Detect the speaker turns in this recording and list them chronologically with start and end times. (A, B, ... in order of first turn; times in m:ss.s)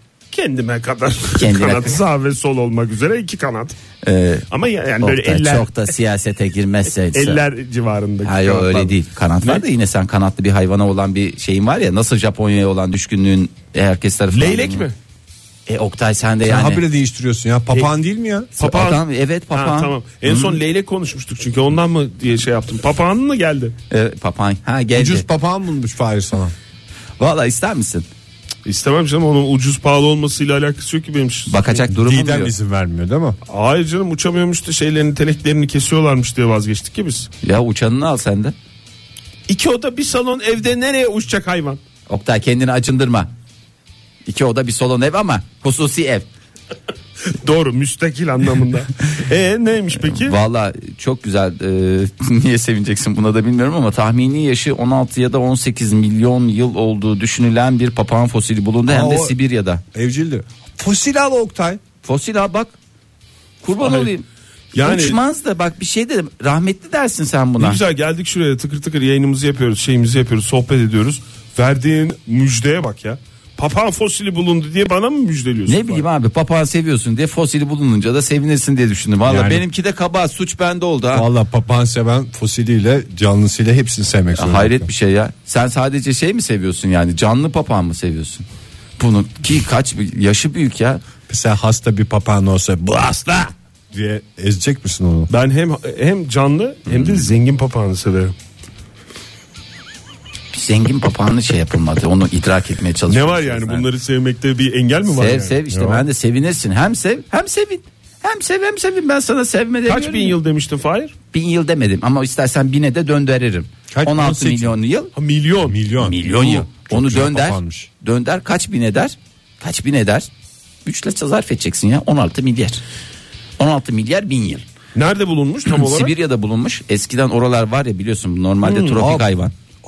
0:00.3-0:03.8 A
0:01.4-0:02.0 B
0:04.0-0:04.5 B
0:04.5-0:05.9 A
0:05.0-0:07.4 B
0:07.1-0:09.6 A
0:08.2-0:14.9 B
0:14.3-0:15.0 A
0:15.7-0:16.8 B
0:16.4-0:18.5 C
0:18.6-0:23.7 A
0:18.6-0:20.6 B
0:23.9-0:25.3 B
0:25.0-0:26.6 C
0:27.2-0:28.1 B
0:28.6-0:31.8 A
0:31.5-0:32.5 B
0:31.9-0:33.4 C
0:33.5-0:37.3 A
0:37.4-0:38.5 B
0:39.5-0:41.8 A
0:42.1-0:43.3 B
0:44.3-0:46.3 B
0:47.3-0:50.4 A
0:50.0-0:59.8 B
0:58.9-0:59.4 C
0:59.9-1:01.8 C
1:02.0-1:02.8 B
1:03.6-1:07.8 B
1:03.8-1:04.1 A
1:04.7-1:05.2 A
1:07.6-1:16.1 A
1:15.7-1:21.3 B
1:19.2-1:19.6 C
1:21.1-1:24.9 C
1:24.4-1:28.5 B
1:29.0-1:31.0 B
1:31.3-1:35.3 C
1:35.3-1:38.3 A
1:36.9-1:37.3 B
1:40.5-1:43.9 B
1:43.1-1:45.6 A
1:45.1-1:50.4 B
1:45.7-1:46.0 C
1:49.9-1:51.1 A
1:51.3-1:55.1 B
1:53.9-1:54.8 C
1:55.2-1:55.8 A
1:55.6-1:57.9 C
1:56.0-2:00.3 B
2:00.8-2:02.8 B
2:03.6-2:04.7 B
2:05.0-2:06.2 A
2:05.7-2:09.5 B
2:08.6-2:09.1 A
2:09.0-2:09.3 C